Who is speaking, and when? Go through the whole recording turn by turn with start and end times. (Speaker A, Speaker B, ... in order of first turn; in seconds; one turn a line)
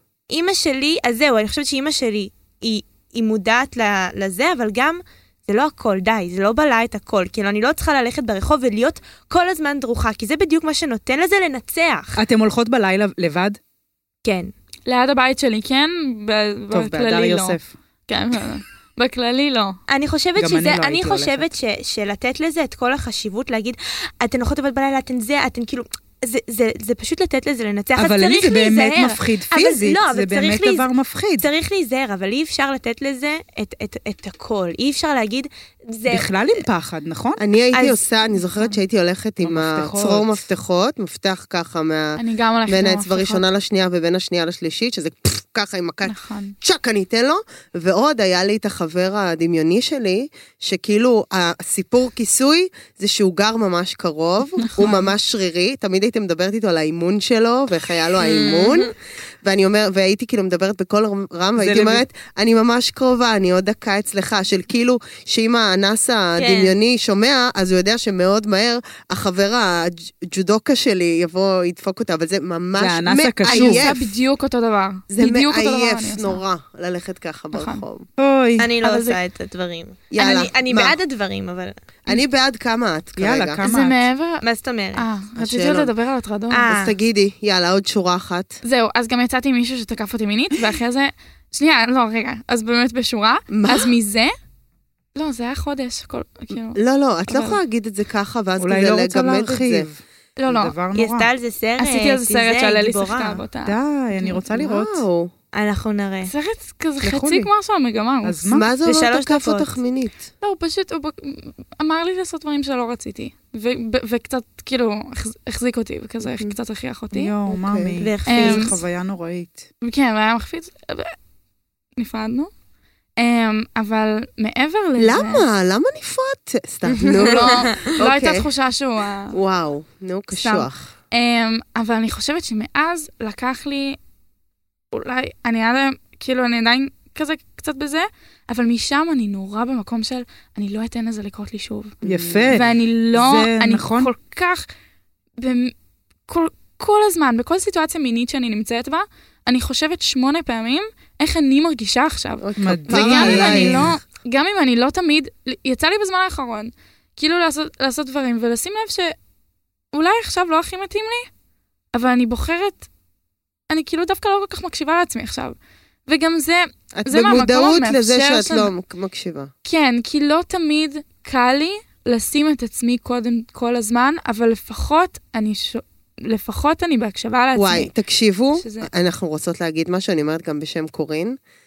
Speaker A: 0.3-12.2
Speaker B: 12.2-13.6
Speaker A: 14.2-14.5
Speaker C: 14.8-17.6
Speaker B: 16.7-17.7
Speaker C: 18.1-19.8
Speaker A: 19.9-36.6
Speaker B: 20.4-21.5
Speaker B: 27.9-31.5
Speaker B: 36.1-37.4
Speaker D: 37.4-74.1
Speaker A: 37.7-38.0
Speaker B: 39.4-40.5
Speaker C: 42.2-43.4
Speaker C: 46.0-46.5
Speaker A: 58.2-58.9
Speaker B: 61.6-62.0
Speaker A: 66.4-66.7
Speaker B: 72.8-73.9
Speaker C: 73.5-76.4
Speaker D: 75.1-78.1
Speaker C: 77.5-77.8
Speaker B: 78.2-78.7
Speaker A: 78.6-81.7
Speaker C: 78.8-79.2
Speaker D: 80.1-81.0
Speaker D: 82.0-83.6
Speaker B: 83.2-84.0
Speaker C: 83.6-84.4
Speaker A: 84.4-85.0
Speaker C: 84.9-86.7
Speaker D: 85.3-85.9
Speaker A: 86.5-86.9
Speaker D: 86.7-88.6
Speaker C: 88.6-94.3
Speaker D: 93.5-93.9
Speaker C: 95.2-97.6
Speaker D: 96.7-99.9
Speaker B: 98.6-101.3
Speaker C: 100.4-100.7
Speaker A: 100.9-103.4
Speaker C: 101.8-104.4
Speaker B: 103.6-105.0
Speaker D: 104.5-105.3
Speaker A: 105.5-106.3
Speaker C: 106.2-108.4
Speaker D: 107.1-107.4
Speaker B: 108.2-108.7
Speaker D: 108.5-110.2
Speaker A: 108.8-109.7
Speaker C: 110.4-117.3
Speaker B: 117.1-119.7
Speaker D: 117.5-118.0
Speaker A: 118.0-118.8
Speaker C: 118.3-118.8
Speaker C: 119.8-121.1
Speaker C: 122.0-122.5
Speaker C: 123.2-125.5
Speaker D: 125.0-128.5
Speaker A: 126.9-127.9
Speaker C: 127.0-129.4
Speaker D: 129.3-130.9
Speaker C: 130.4-134.0
Speaker C: 134.9-141.9
Speaker D: 142.0-142.5
Speaker B: 142.0-144.1
Speaker C: 142.5-144.6
Speaker C: 145.4-145.7
Speaker C: 146.3-159.1
Speaker D: 152.4-153.9
Speaker B: 152.6-153.9
Speaker C: 159.9-161.3
Speaker C: 161.9-162.8
Speaker C: 163.7-165.6
Speaker C: 166.1-168.7
Speaker D: 166.9-169.5
Speaker C: 169.7-177.9
Speaker D: 177.5-181.4
Speaker C: 178.6-178.9